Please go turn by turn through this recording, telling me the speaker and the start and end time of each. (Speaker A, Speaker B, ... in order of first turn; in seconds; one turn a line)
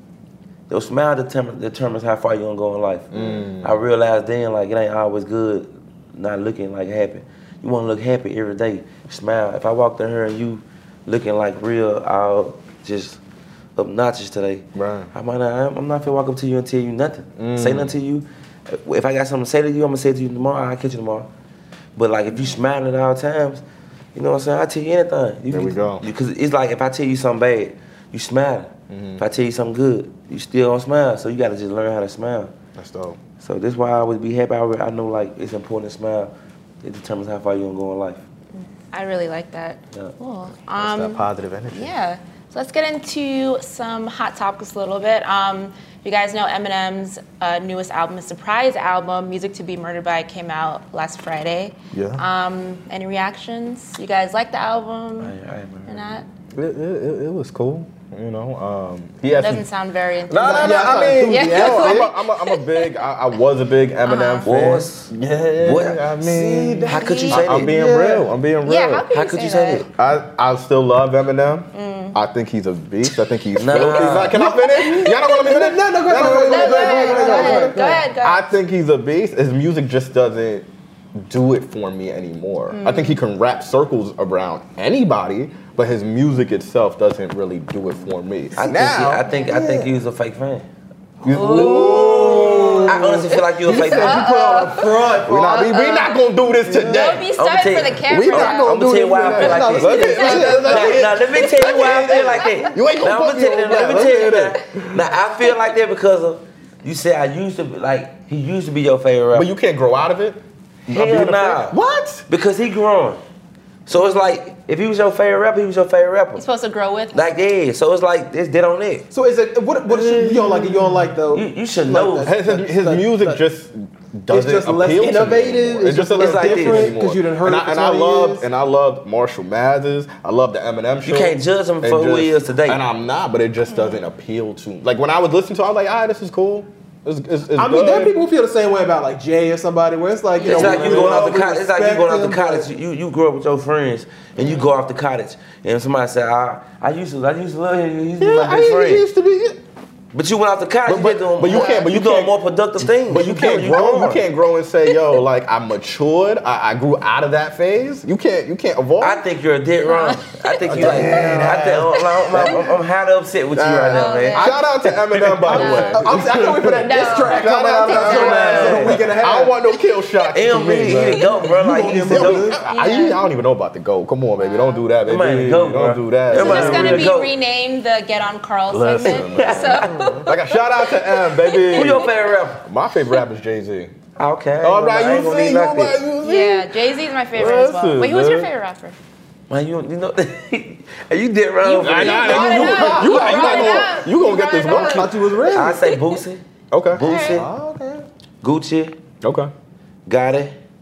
Speaker A: 0.7-13.2
Speaker B: 3.1-3.8
Speaker A: 13.8-21.3
Speaker B: 14.7-15.1
Speaker B: 17.4-17.9
Speaker A: 21.9-23.6
Speaker A: 24.1-32.5
Speaker B: 25.5-26.1
Speaker B: 28.9-29.2
Speaker B: 32.8-33.2
Speaker A: 33.4-36.3
Speaker A: 36.8-38.2
Speaker C: 38.5-55.3
Speaker B: 40.8-41.9
Speaker B: 51.9-52.2
Speaker A: 55.2-56.2
Speaker C: 55.9-56.2
Speaker B: 56.5-59.6
Speaker C: 59.4-62.9
Speaker B: 60.3-69.1
Speaker D: 60.4-62.1
Speaker C: 64.0-64.5
Speaker A: 64.4-65.1
Speaker A: 65.6-66.1
Speaker D: 66.2-68.3
Speaker A: 66.9-67.8
Speaker C: 66.9-67.5
Speaker C: 68.6-69.9
Speaker A: 69.1-69.9
Speaker B: 70.0-80.7
Speaker C: 71.7-72.2
Speaker A: 73.5-74.4
Speaker D: 74.3-78.0
Speaker C: 74.4-75.5
Speaker C: 76.1-78.5
Speaker B: 81.2-89.2
Speaker C: 82.7-83.2
Speaker A: 88.6-90.7
Speaker C: 89.3-89.5
Speaker D: 89.4-89.9
Speaker B: 91.2-94.7
Speaker C: 91.3-96.2
Speaker D: 91.6-92.9
Speaker A: 92.9-94.2
Speaker D: 93.7-95.8
Speaker B: 95.2-97.3
Speaker D: 96.6-97.1
Speaker C: 96.8-98.7
Speaker A: 97.3-109.5
Speaker B: 98.0-105.1
Speaker D: 99.3-102.4
Speaker C: 99.8-100.8
Speaker C: 102.4-102.7
Speaker B: 109.3-112.2
Speaker A: 110.9-111.8
Speaker A: 112.3-113.2
Speaker A: 113.8-116.4
Speaker C: 116.3-117.3
Speaker A: 117.1-119.1
Speaker D: 119.1-123.4
Speaker B: 119.9-121.1
Speaker A: 121.3-122.3
Speaker B: 122.2-138.2
Speaker D: 124.3-128.4
Speaker A: 126.2-126.9
Speaker A: 131.0-132.8
Speaker C: 133.7-134.0
Speaker D: 137.6-142.7
Speaker C: 140.4-140.7
Speaker A: 140.4-149.0
Speaker B: 140.4-141.1
Speaker C: 144.3-144.7
Speaker B: 148.2-149.6
Speaker A: 150.1-154.2
Speaker B: 150.8-159.2
Speaker C: 151.5-151.8
Speaker A: 159.0-164.5
Speaker C: 159.8-161.1
Speaker B: 160.7-162.7
Speaker D: 160.8-161.6
Speaker B: 163.5-177.1
Speaker C: 163.9-164.6
Speaker D: 164.4-169.5
Speaker C: 165.5-166.2
Speaker C: 166.8-169.0
Speaker A: 170.3-172.5
Speaker D: 171.5-172.6
Speaker C: 172.7-173.2
Speaker C: 174.4-174.8
Speaker A: 175.1-177.3
Speaker C: 176.3-182.1
Speaker B: 178.7-182.1
Speaker A: 179.0-180.0
Speaker A: 181.7-182.7
Speaker B: 182.6-183.9
Speaker A: 184.2-186.0
Speaker B: 184.6-186.8
Speaker C: 186.2-189.0
Speaker B: 187.3-188.5
Speaker A: 189.5-193.4
Speaker C: 191.6-195.1
Speaker B: 191.8-195.2
Speaker D: 192.2-194.0
Speaker D: 194.7-195.8
Speaker A: 195.4-197.5
Speaker C: 195.8-196.2
Speaker B: 196.7-197.0
Speaker C: 196.9-197.4
Speaker D: 197.3-198.1
Speaker A: 198.4-199.0
Speaker B: 199.2-199.5
Speaker A: 200.1-200.6